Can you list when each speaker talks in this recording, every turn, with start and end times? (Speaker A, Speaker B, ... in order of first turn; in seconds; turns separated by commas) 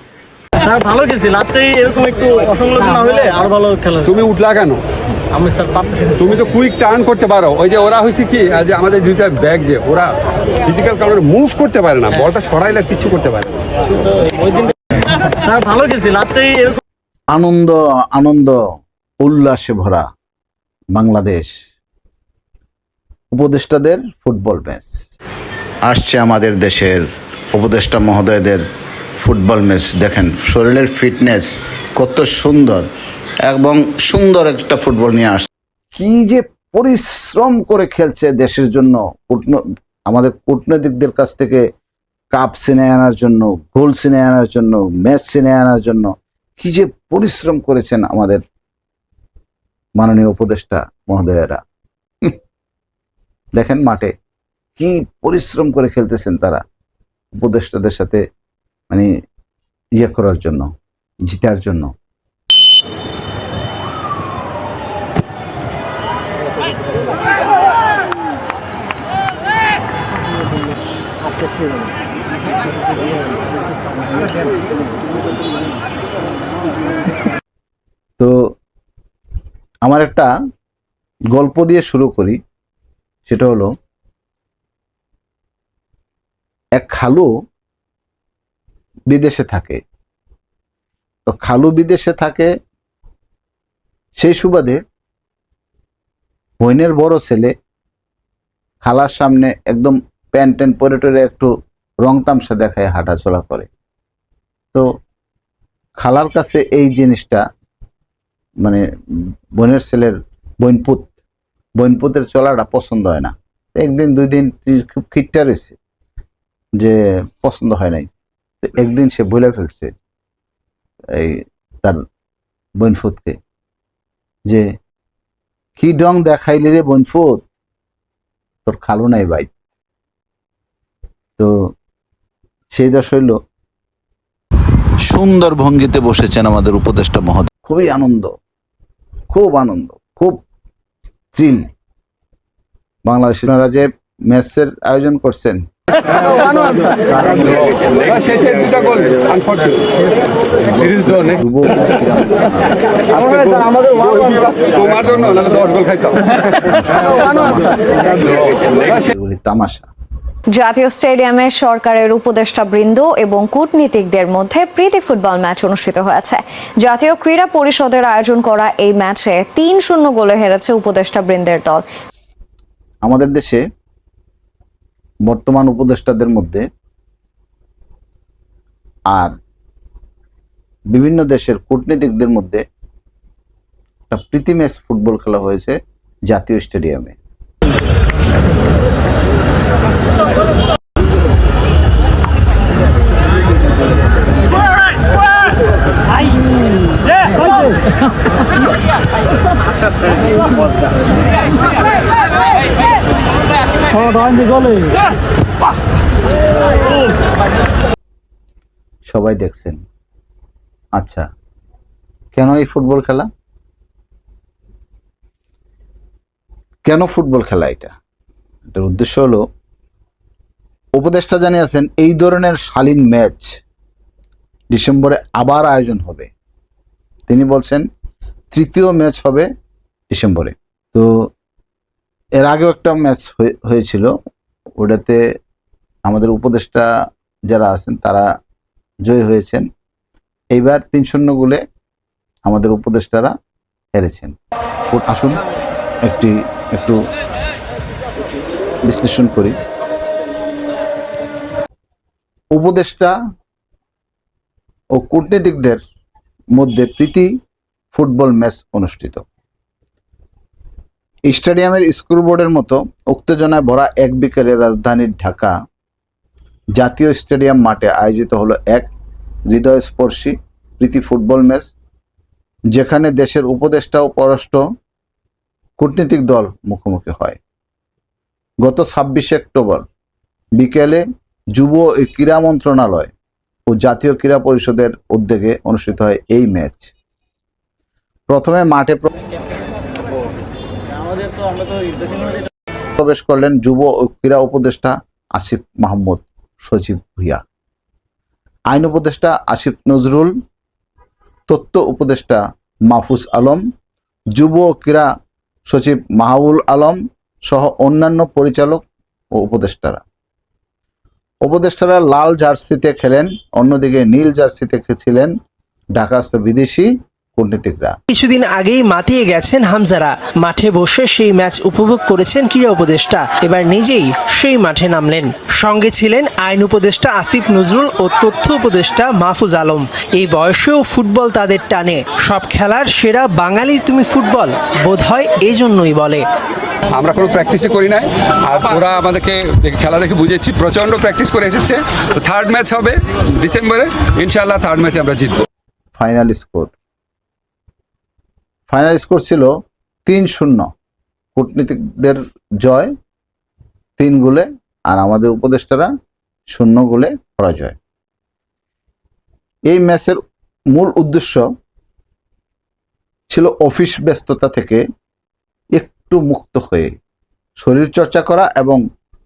Speaker A: 0.6-4.0, Speaker B: 4.0-4.8, Speaker A: 5.4-6.1, Speaker B: 6.2-10.1, Speaker B: 10.6-13.5, Speaker A: 15.4-16.8, Speaker C: 17.3-18.6, Speaker C: 19.2-20.0, Speaker C: 20.9-21.5, Speaker C: 23.3-25.1, Speaker C: 25.8-28.6, Speaker C: 29.2-32.9, Speaker C: 33.5-41.6, Speaker C: 42.3-48.4, Speaker C: 50.0-51.6, Speaker C: 53.5-54.1, Speaker C: 54.8-56.6, Speaker C: 57.4-58.2, Speaker C: 60.0-60.7, Speaker C: 61.3-61.9, Speaker C: 79.8-80.3, Speaker C: 81.3-82.4, Speaker C: 83.2-83.7, Speaker C: 86.8-87.3, Speaker C: 89.1-89.8, Speaker C: 91.2-92.5, Speaker C: 94.2-94.8, Speaker C: 96.6-97.5, Speaker C: 98.8-101.5, Speaker C: 102.0-103.7, Speaker C: 106.0-107.4, Speaker C: 109.6-111.1, Speaker C: 111.8-115.8, Speaker C: 116.8-118.1, Speaker C: 118.6-119.9, Speaker C: 121.1-122.0, Speaker C: 122.8-123.4, Speaker C: 125.8-127.4, Speaker C: 128.7-129.5, Speaker C: 132.7-133.4, Speaker C: 135.1-138.3, Speaker C: 139.3-140.4, Speaker C: 141.3-141.7, Speaker C: 143.1-145.6, Speaker B: 146.3-149.9, Speaker C: 150.6-152.7, Speaker B: 153.2-156.8, Speaker B: 158.2-158.6, Speaker C: 158.8-159.9, Speaker D: 160.5-171.8, Speaker C: 173.0-173.6, Speaker C: 175.3-176.6, Speaker C: 180.9-182.6, Speaker C: 184.1-185.8, Speaker C: 186.3-187.2, Speaker C: 209.1-209.8, Speaker C: 211.0-211.2, Speaker C: 212.3-213.3, Speaker C: 216.8-217.9, Speaker C: 218.7-219.4, Speaker C: 221.0-223.5, Speaker C: 224.7-226.3, Speaker C: 227.3-227.8, Speaker C: 228.5-229.5, Speaker C: 230.1-231.3, Speaker C: 232.4-234.1, Speaker C: 234.8-235.2, Speaker C: 236.0-236.8, Speaker C: 237.5-238.2, Speaker C: 239.1-239.7, Speaker C: 240.5-241.6, Speaker C: 242.4-243.3, Speaker C: 243.9-244.4, Speaker C: 244.9-245.4, Speaker C: 246.1-247.0, Speaker C: 248.8-249.5, Speaker C: 252.5-253.1, Speaker C: 255.0-255.8, Speaker C: 256.5-257.3, Speaker C: 257.9-259.2, Speaker C: 261.3-265.5, Speaker C: 266.8-268.9, Speaker C: 269.5-271.7, Speaker C: 272.7-274.6, Speaker C: 275.8-277.4, Speaker C: 278.6-279.8, Speaker C: 280.6-281.0, Speaker C: 281.5-283.1, Speaker C: 283.7-286.9, Speaker C: 288.3-289.1, Speaker C: 293.0-297.4, Speaker C: 298.7-300.3, Speaker C: 301.5-303.6, Speaker C: 304.3-305.1, Speaker C: 305.7-308.8, Speaker C: 309.4-310.0, Speaker C: 311.4-315.3, Speaker C: 315.9-317.9, Speaker E: 318.1-336.2, Speaker B: 336.9-345.4, Speaker C: 346.0-346.7, Speaker C: 348.7-349.5, Speaker C: 350.1-350.7, Speaker C: 351.3-352.9, Speaker C: 354.0-355.9, Speaker C: 356.5-357.8, Speaker C: 359.7-360.2, Speaker C: 360.7-361.4, Speaker C: 363.3-364.8, Speaker C: 365.8-366.9, Speaker C: 367.6-368.8